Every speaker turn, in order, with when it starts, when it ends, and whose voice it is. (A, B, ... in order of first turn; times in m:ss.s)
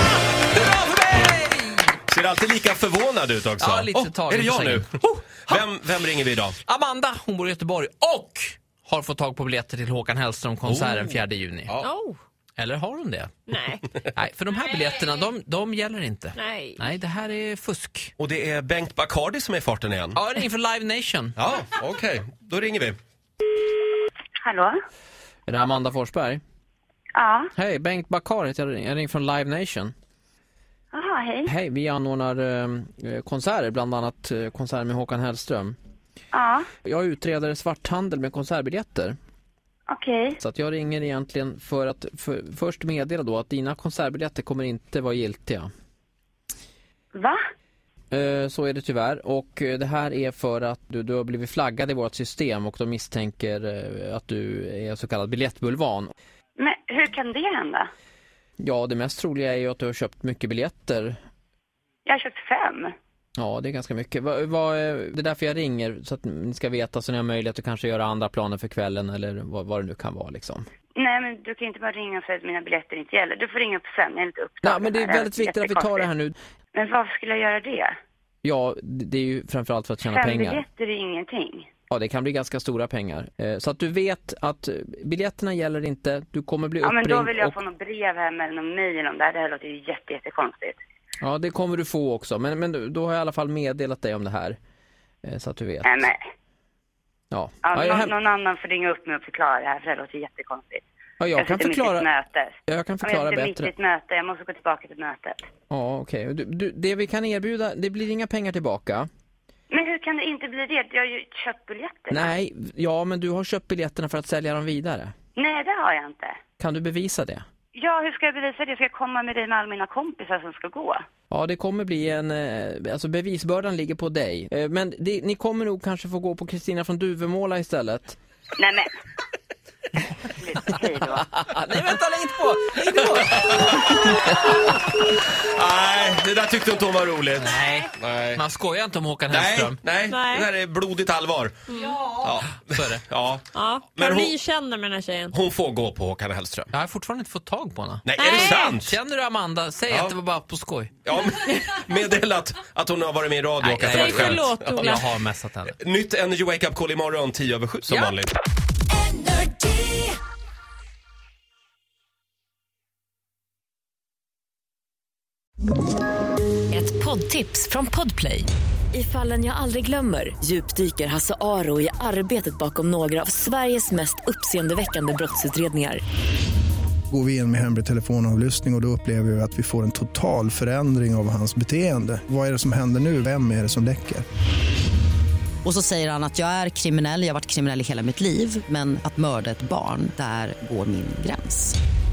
0:00.4-0:02.0 A
0:02.1-0:04.9 B
0:03.6-0:05.6 A
0:05.5-0:06.5 B
0:06.6-0:11.7 A
0:10.6-0:11.9 B
0:11.8-0:12.2 C
0:12.6-0:13.3 A
0:13.5-0:13.9 C
0:14.1-0:18.1 A
0:16.3-0:16.8 C
0:18.2-0:20.2 B
0:20.1-0:21.4 A
0:21.4-0:23.0 B
0:24.4-0:24.7 D
0:25.5-0:26.4 A
0:27.1-0:27.5 D
0:27.6-0:29.9 A
0:30.9-0:31.5 D
0:31.4-0:35.8 A
0:36.3-0:36.6 D
0:36.8-0:39.2 A
0:39.9-0:40.4 D
0:40.4-0:45.7 A
0:48.1-0:56.1 A
0:56.6-0:57.9 D
0:58.6-1:01.2 A
1:02.0-1:02.9 D
1:03.4-1:10.6 A
1:11.0-1:16.0 D
1:14.6-1:16.4 A
1:16.7-1:17.9 D
1:18.4-1:20.6 A
1:20.1-1:21.7 D
1:21.9-1:27.6 A
1:26.8-1:30.8 D
1:31.2-1:34.6 A
1:35.2-1:36.1 A
1:35.8-1:36.2 D
1:37.3-1:38.1 A
1:37.6-1:40.8 D
1:41.2-1:42.1 A
1:41.4-1:45.4 D
1:42.7-1:43.7 A
1:45.7-1:49.1 A
1:49.7-1:52.2 D
1:52.1-1:55.1 A
1:55.4-1:56.4 D
1:56.6-1:57.4 A
1:57.7-2:01.0 D
2:01.3-2:08.2 A
2:08.6-2:08.9 D
2:10.4-2:11.3 D
2:11.3-2:14.1 A
2:15.5-2:18.4 B
2:17.4-2:19.8 A
2:19.3-2:21.6 B
2:20.0-2:20.5 C
2:21.7-2:22.0 C
2:21.9-2:23.0 A
2:22.2-2:24.4 B
2:23.5-2:25.4 C
2:25.3-2:26.7 B
2:26.7-2:30.9 A
2:28.0-2:28.9 B
2:28.2-2:28.8 C
2:29.9-2:30.2 B
2:31.0-2:35.0 B
2:33.6-2:35.8 A
2:33.8-2:35.0 C
2:35.8-2:38.3 B
2:39.0-2:40.2 E
2:46.7-2:56.0 E
2:57.1-3:04.2 F
3:05.6-3:11.8 G